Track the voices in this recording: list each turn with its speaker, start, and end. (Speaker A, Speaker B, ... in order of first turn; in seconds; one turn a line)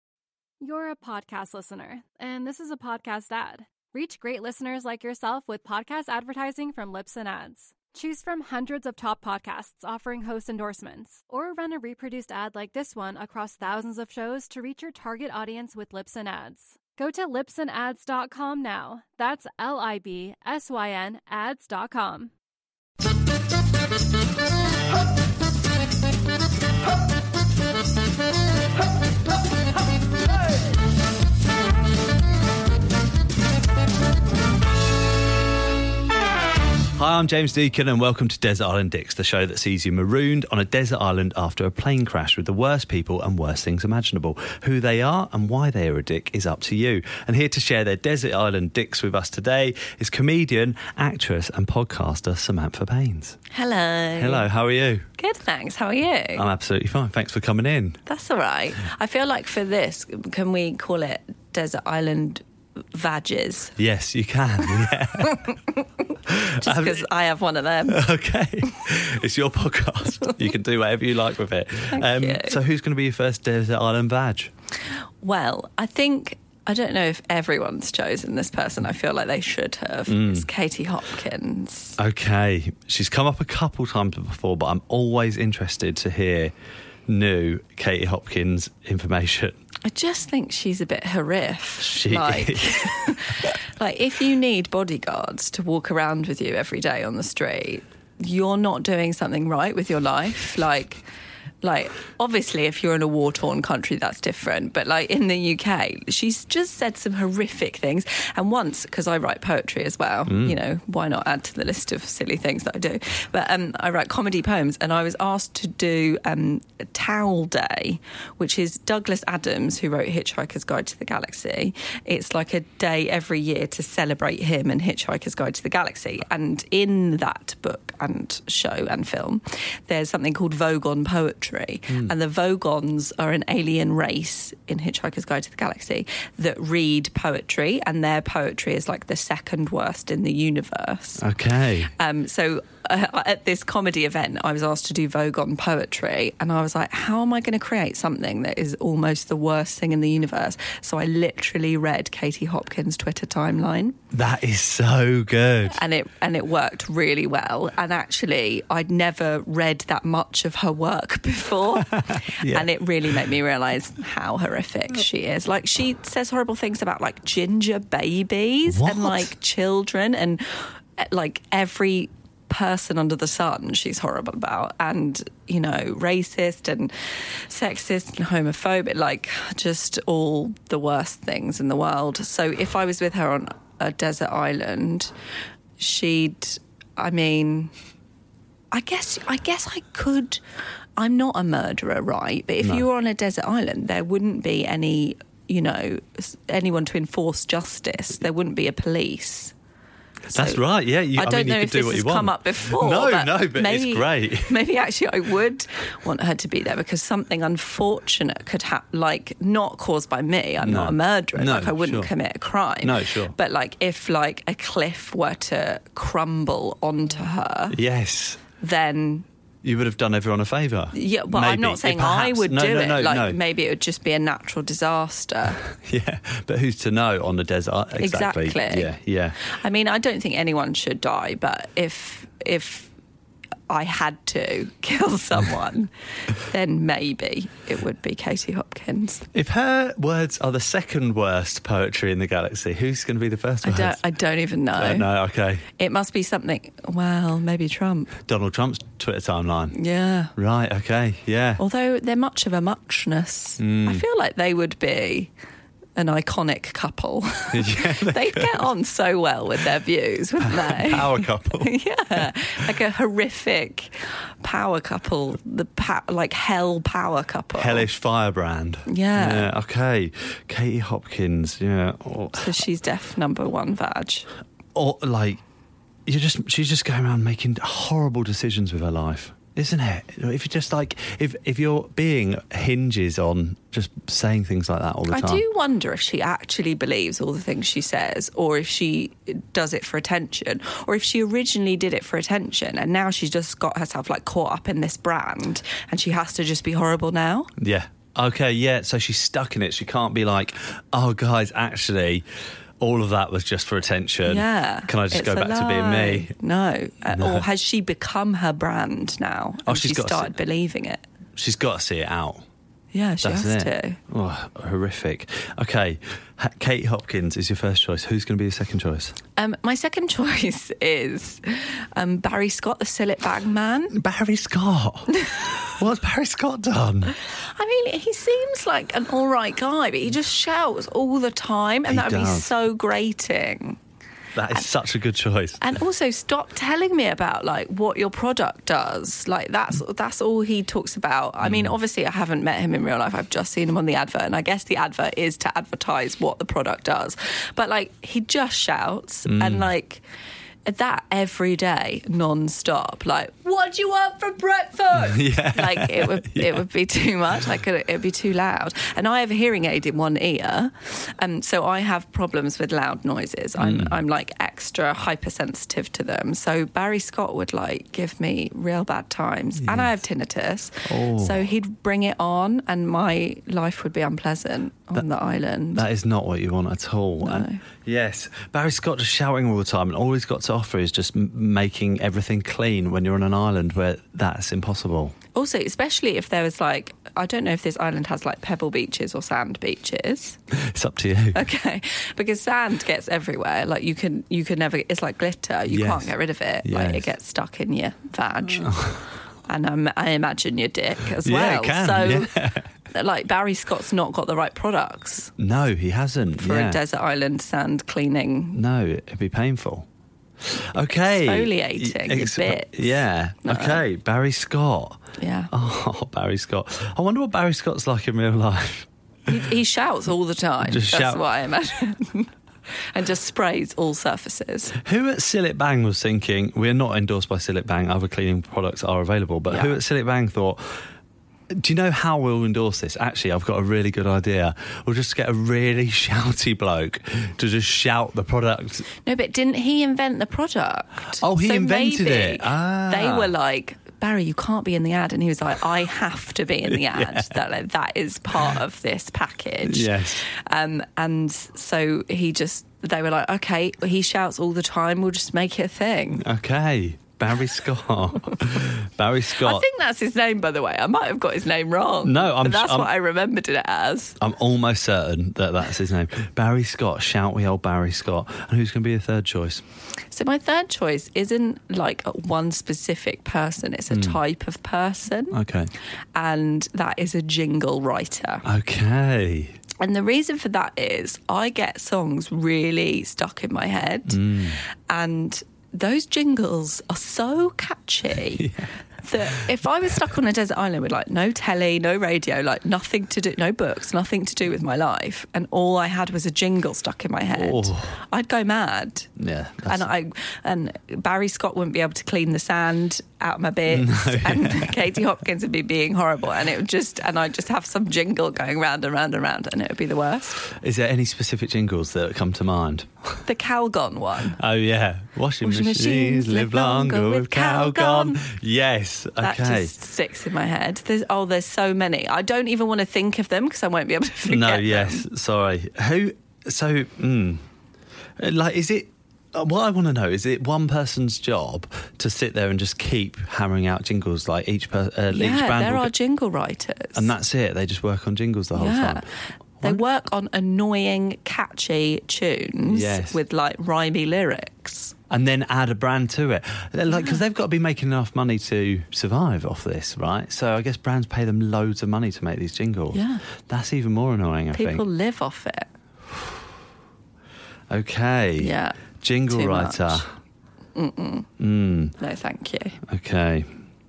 Speaker A: 0.6-22.3
Speaker B: 36.9-53.4
Speaker C: 53.5-54.5
Speaker B: 54.1-55.0
Speaker C: 55.2-56.4
Speaker B: 56.4-58.0
Speaker C: 58.0-63.7
Speaker B: 63.8-65.5
Speaker C: 65.2-65.8
Speaker B: 66.3-67.0
Speaker C: 66.3-68.0
Speaker B: 67.9-74.5
Speaker C: 71.9-72.6
Speaker C: 75.2-82.0
Speaker B: 80.1-80.5
Speaker B: 82.0-86.5
Speaker B: 87.1-89.6
Speaker C: 89.8-101.0
Speaker B: 91.8-93.5
Speaker C: 101.6-141.2
Speaker B: 110.3-110.5
Speaker B: 131.9-132.1
Speaker B: 141.2-141.9
Speaker C: 141.9-154.0
Speaker B: 154.1-155.8
Speaker C: 155.7-185.1
Speaker B: 161.8-162.7
Speaker B: 168.7-169.3
Speaker C: 185.8-187.7
Speaker C: 188.7-190.4
Speaker C: 191.0-199.5
Speaker B: 200.3-204.6
Speaker C: 200.3-217.8
Speaker B: 210.6-212.1
Speaker B: 212.8-213.3
Speaker B: 217.7-218.4
Speaker C: 218.6-219.2
Speaker B: 219.6-223.4
Speaker C: 220.9-225.6
Speaker B: 225.7-229.4
Speaker C: 227.9-232.9
Speaker C: 233.7-239.3
Speaker B: 239.3-244.0
Speaker C: 243.6-245.1
Speaker B: 244.8-245.6
Speaker C: 245.8-248.1
Speaker B: 248.2-249.8
Speaker C: 249.7-250.3
Speaker B: 250.3-251.6
Speaker C: 251.6-255.3
Speaker B: 253.6-254.0
Speaker C: 255.9-267.9
Speaker B: 257.5-258.6
Speaker B: 260.4-262.3
Speaker B: 267.5-272.6
Speaker C: 268.9-269.5
Speaker C: 272.3-274.3
Speaker B: 274.7-275.4
Speaker B: 276.1-285.4
Speaker C: 285.1-297.5
Speaker B: 297.6-302.2
Speaker B: 302.8-306.3
Speaker C: 304.2-311.1
Speaker B: 307.1-307.4
Speaker B: 309.6-310.3
Speaker B: 311.4-312.4
Speaker C: 312.9-314.0
Speaker B: 313.2-319.1
Speaker C: 319.4-323.9
Speaker B: 323.9-327.1
Speaker C: 327.2-333.8
Speaker B: 331.9-332.5
Speaker B: 334.3-335.7
Speaker C: 335.6-350.0
Speaker B: 341.4-341.8
Speaker B: 349.3-349.7
Speaker C: 350.6-375.8
Speaker B: 354.9-356.6
Speaker B: 363.6-364.0
Speaker B: 369.6-370.0
Speaker B: 370.9-371.5
Speaker B: 375.7-385.1
Speaker C: 377.2-377.6
Speaker C: 385.3-390.4
Speaker B: 390.5-391.4
Speaker C: 391.3-402.3
Speaker B: 395.7-396.1
Speaker B: 396.6-397.1
Speaker B: 398.6-399.0
Speaker B: 401.2-402.7
Speaker C: 402.9-405.3
Speaker B: 405.4-406.8
Speaker C: 406.3-408.6
Speaker B: 408.5-409.9
Speaker B: 410.4-415.0
Speaker C: 411.1-413.8
Speaker C: 415.2-415.5
Speaker B: 415.5-418.9
Speaker C: 419.3-422.3
Speaker B: 420.6-421.2
Speaker C: 422.9-424.7
Speaker B: 424.8-430.8
Speaker C: 429.5-429.8
Speaker B: 431.5-438.9
Speaker C: 439.0-456.2
Speaker B: 441.2-443.3
Speaker B: 446.7-447.4
Speaker B: 449.6-450.2
Speaker B: 456.2-459.6
Speaker C: 459.4-464.2
Speaker B: 462.0-462.9
Speaker B: 464.2-469.6
Speaker C: 470.1-475.4
Speaker B: 473.9-474.2
Speaker B: 475.3-475.7
Speaker C: 476.1-478.4
Speaker B: 478.4-479.6
Speaker C: 479.8-499.1
Speaker B: 484.1-484.6
Speaker B: 488.4-488.7
Speaker B: 497.3-497.9
Speaker B: 499.2-499.9
Speaker C: 499.7-510.4
Speaker B: 503.7-504.8
Speaker B: 510.5-513.2
Speaker C: 513.2-514.4
Speaker B: 514.4-519.7
Speaker C: 515.4-518.2
Speaker C: 519.2-525.0
Speaker B: 524.2-527.4
Speaker B: 528.2-535.9
Speaker C: 535.1-537.1
Speaker B: 536.9-539.0
Speaker C: 538.5-545.0
Speaker B: 542.7-543.2
Speaker B: 545.1-554.8
Speaker C: 546.9-547.2
Speaker C: 552.9-553.2
Speaker C: 554.5-555.7
Speaker B: 557.7-560.1
Speaker C: 558.4-560.0
Speaker C: 560.7-561.3
Speaker B: 561.4-561.9
Speaker C: 562.0-562.8
Speaker B: 562.9-563.5